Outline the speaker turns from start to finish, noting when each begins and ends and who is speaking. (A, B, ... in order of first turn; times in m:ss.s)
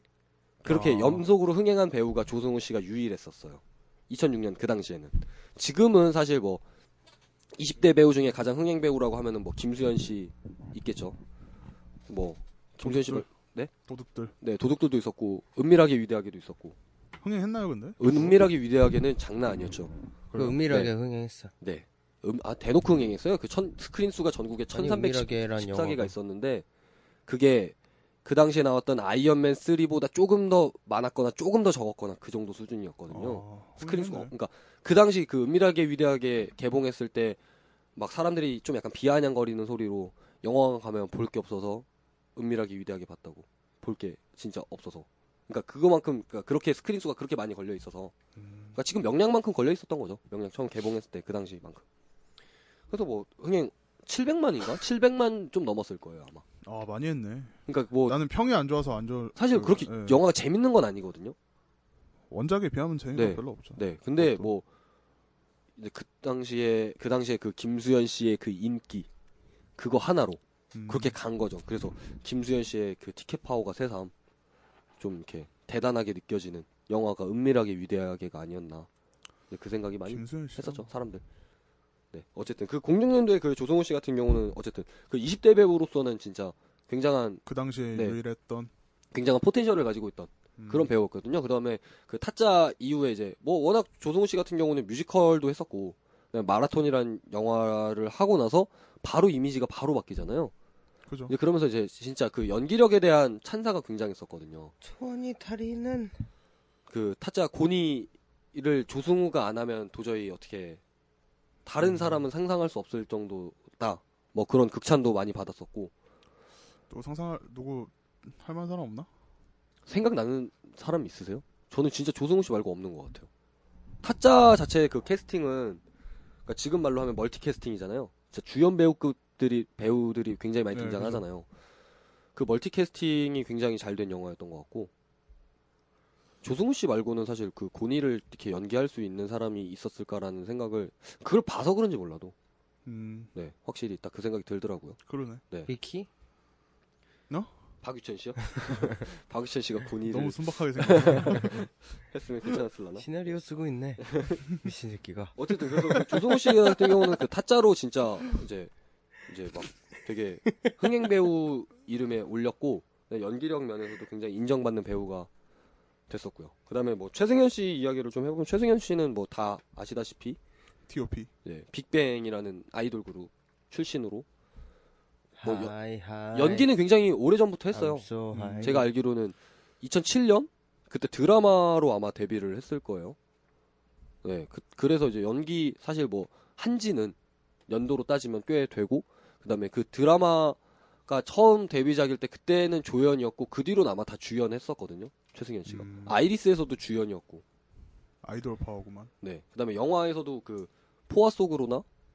0:00.6-0:06.6 A
0:00.7-0:01.3 B
0:07.6-0:11.2 A
0:12.1-0:13.7 A
0:12.8-0:13.3 B
0:13.8-0:14.3 B
0:14.4-0:16.8 A
0:17.2-0:18.4 B
0:18.0-0:19.9 A
0:20.3-0:20.6 B
0:20.4-0:21.5 C
0:21.6-0:26.6 A
0:24.7-0:26.1 C
0:27.3-0:37.4 A
0:33.1-0:34.3 B
0:38.0-0:48.1 A
0:48.4-0:48.8 B
0:48.8-0:51.8 A
0:52.9-0:56.4 A
0:56.6-1:00.2 B
0:57.7-0:58.2 A
0:59.4-1:01.4 A
1:02.3-1:04.5 B
1:03.2-1:04.6 A
1:05.8-1:09.1 A
1:09.8-1:14.1 A
1:10.7-1:11.2 B
1:15.0-1:18.9 A
1:19.5-1:21.2 A
1:20.1-1:20.9 B
1:22.1-1:27.4 A
1:27.5-1:28.7 B
1:29.1-1:40.5 A
1:30.6-1:30.9 B
1:41.1-1:41.3 B
1:41.3-1:44.7 A
1:44.8-1:46.2 C
1:46.9-1:50.8 A
1:51.6-1:55.9 A
1:51.8-1:52.2 B
1:56.9-1:59.1 B
1:59.9-2:03.3 A
2:04.0-2:05.8 A
2:06.5-2:11.5 A
2:10.7-2:11.2 B
2:12.4-2:14.9 A
2:16.4-2:22.3 A
2:22.9-2:23.3 B
2:23.4-2:25.0 A
2:25.1-2:25.4 B
2:25.7-2:26.1 C
2:27.8-2:33.0 A
2:30.1-2:31.7 B
2:33.0-2:36.9 C
2:34.0-2:34.4 A
2:35.4-2:38.7 A
2:39.3-2:45.3 A
2:46.1-2:50.4 A
2:50.9-2:51.3 B
2:51.4-2:54.3 A
2:55.4-2:56.7 C
2:55.4-2:55.7 A
2:56.3-2:58.1 A
2:57.7-2:58.9 C
2:58.3-2:58.9 B
2:58.6-3:03.2 A
3:04.2-3:07.2 A
3:07.7-3:17.4 A
3:15.7-3:16.2 B
3:18.2-3:19.1 B
3:19.2-3:21.8 A